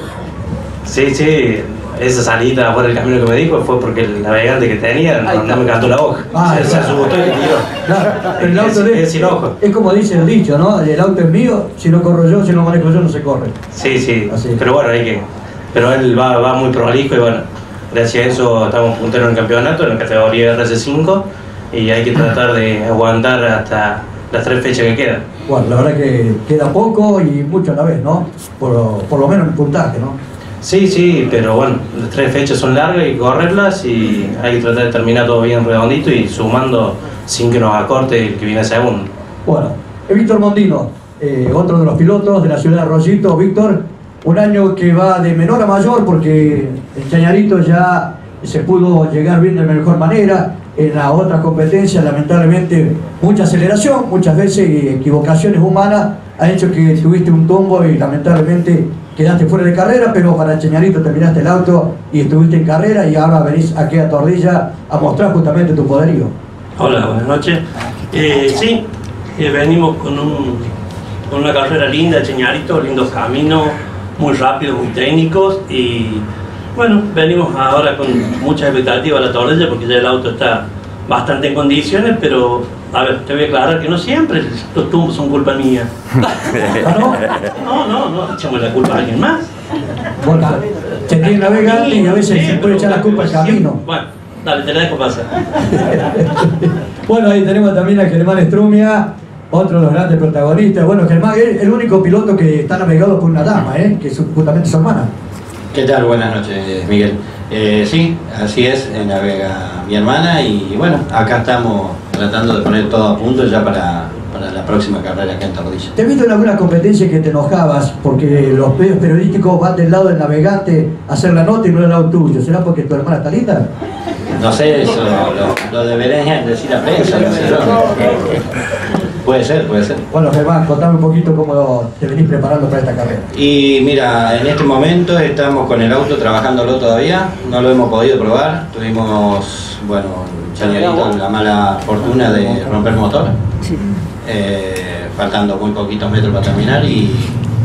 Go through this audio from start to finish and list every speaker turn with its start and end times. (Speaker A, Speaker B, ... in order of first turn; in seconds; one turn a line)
Speaker A: 0.8-7.7
Speaker B: 6.3-7.2
Speaker B: 7.8-13.5
Speaker A: 8.2-9.5
Speaker A: 13.7-25.2
Speaker B: 14.3-14.6
Speaker B: 25.5-30.2
Speaker A: 30.6-39.1
Speaker B: 39.5-66.3
Speaker C: 66.8-68.8
Speaker C: 69.4-70.7
Speaker C: 71.3-76.2
Speaker C: 76.8-85.9
Speaker B: 86.8-87.2
Speaker C: 87.6-89.4
Speaker B: 90.2-93.8
Speaker C: 91.1-95.3
Speaker B: 95.9-105.1
Speaker D: 105.7-115.9
Speaker B: 116.0-123.7
Speaker D: 124.3-128.3
Speaker D: 129.2-130.0
Speaker B: 130.1-133.3
Speaker D: 133.3-143.3
Speaker D: 144.2-147.4